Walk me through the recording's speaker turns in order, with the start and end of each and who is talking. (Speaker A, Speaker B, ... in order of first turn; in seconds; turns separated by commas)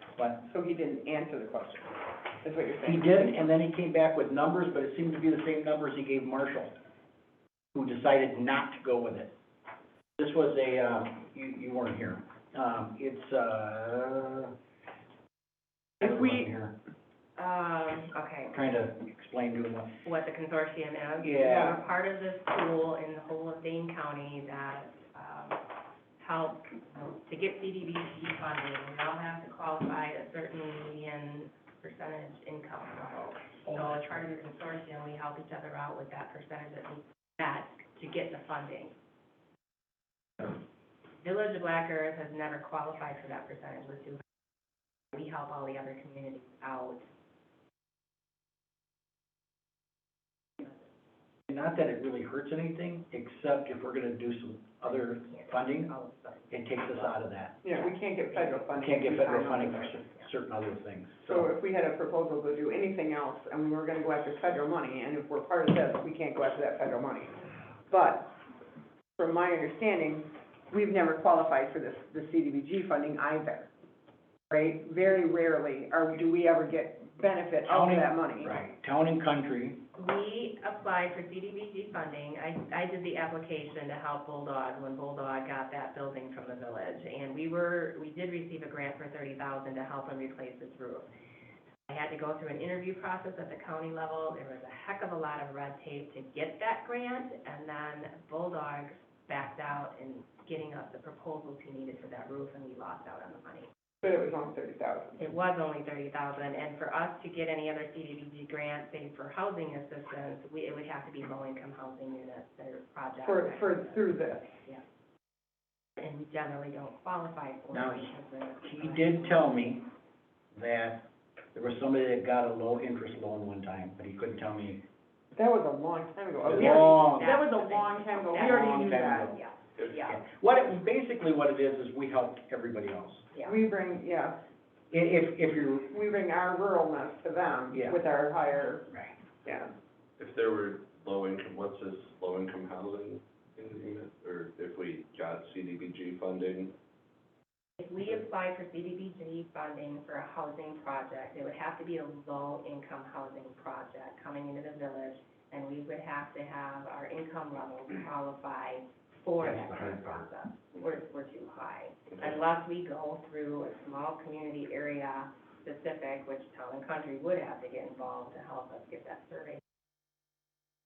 Speaker A: 0.4-3.5, Speaker B: 2.9-6.7, Speaker B: 7.7-9.3, Speaker B: 10.2-14.5, Speaker B: 16.0-16.7, Speaker A: 16.1-16.4, Speaker C: 17.4-18.6, Speaker B: 18.5-20.0, Speaker C: 20.1-25.6, Speaker B: 21.2-21.8, Speaker A: 21.4-21.8, Speaker C: 26.2-39.0, Speaker C: 41.2-44.2, Speaker C: 45.1-47.0, Speaker B: 51.5-55.9, Speaker C: 54.9-58.8, Speaker B: 56.5-57.6, Speaker A: 57.6-59.9, Speaker B: 58.8-61.5, Speaker C: 59.9-60.3, Speaker A: 61.3-68.4, Speaker A: 69.2-73.7, Speaker A: 74.5-78.6, Speaker B: 77.7-79.8, Speaker C: 80.0-91.1, Speaker C: 91.9-103.7, Speaker A: 104.0-105.2, Speaker C: 105.2-114.0, Speaker A: 113.2-114.6, Speaker C: 116.0-119.8, Speaker B: 117.7-118.1, Speaker B: 118.6-119.8, Speaker B: 120.5-124.8, Speaker A: 125.3-129.3, Speaker B: 126.5-127.3, Speaker C: 126.5-130.2, Speaker B: 128.4-129.4, Speaker B: 129.9-133.3, Speaker A: 133.5-134.4, Speaker B: 134.9-135.9, Speaker A: 135.8-138.9, Speaker B: 137.7-138.0, Speaker A: 139.4-139.7, Speaker D: 140.2-146.7, Speaker C: 147.8-169.6, Speaker D: 159.4-160.2